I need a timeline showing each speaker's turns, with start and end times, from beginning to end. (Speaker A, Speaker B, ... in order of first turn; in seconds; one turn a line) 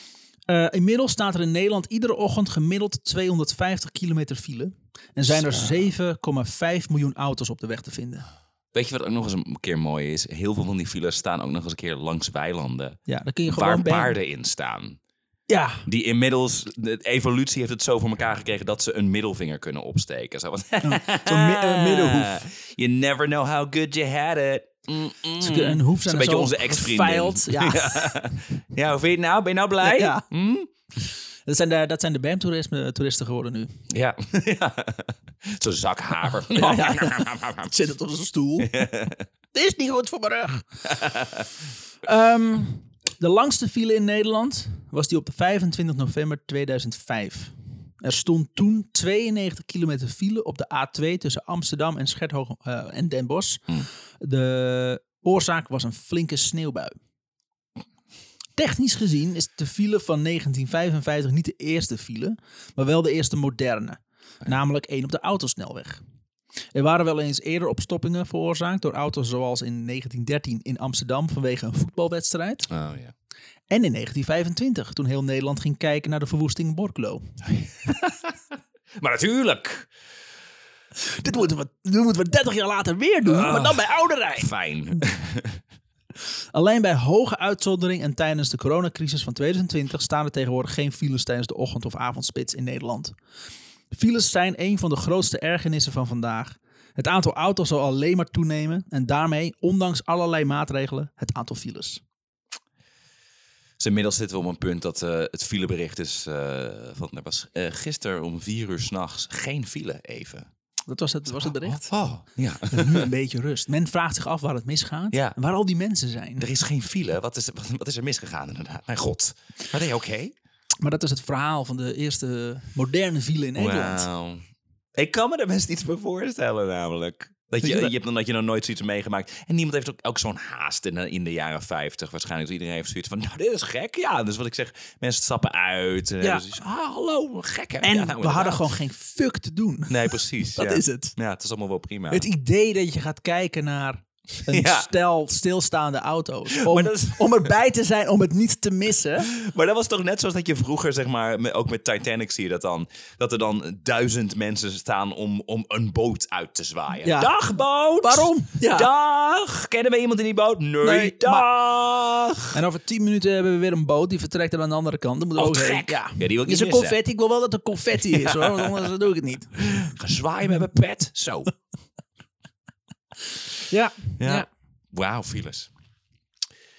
Speaker A: 0.5-8.3
Speaker B: 5.3-5.9
Speaker B: 8.7-15.0
Speaker A: 13.1-14.2
Speaker A: 15.5-15.9
Speaker B: 15.9-30.7
Speaker A: 20.8-22.4
Speaker A: 25.4-28.2
Speaker A: 29.8-30.2
Speaker A: 31.5-33.8
Speaker B: 33.9-37.7
Speaker A: 36.4-38.9
Speaker B: 38.6-39.2
Speaker A: 39.5-40.7
Speaker B: 40.9-41.5
Speaker A: 42.0-56.9
Speaker A: 58.6-66.0
Speaker A: 66.8-72.7
Speaker B: 72.7-73.1
Speaker A: 73.7-77.3
Speaker B: 77.8-78.3
Speaker B: 79.0-79.9
Speaker A: 81.0-84.5
Speaker B: 83.2-85.6
Speaker A: 86.5-93.1
Speaker A: 93.9-102.0
Speaker B: 103.8-110.5
Speaker A: 110.9-111.9
Speaker B: 111.4-113.1
Speaker A: 112.7-116.5
Speaker B: 116.4-120.3
Speaker A: 120.8-124.1
Speaker B: 123.6-124.4
Speaker B: 125.0-138.6
Speaker A: 127.6-127.9
Speaker A: 136.2-136.6
Speaker A: 137.8-141.1
Speaker B: 139.9-142.3
Speaker A: 142.1-149.3
Speaker B: 144.5-144.9
Speaker B: 146.5-147.3
Speaker B: 149.2-162.6
Speaker A: 157.0-157.3
Speaker A: 158.0-158.9
Speaker A: 160.8-161.5
Speaker A: 162.5-169.6
Speaker B: 165.4-167.0
Speaker B: 168.1-168.7
Speaker B: 169.6-171.5
Speaker A: 173.6-174.5
Speaker B: 174.2-175.7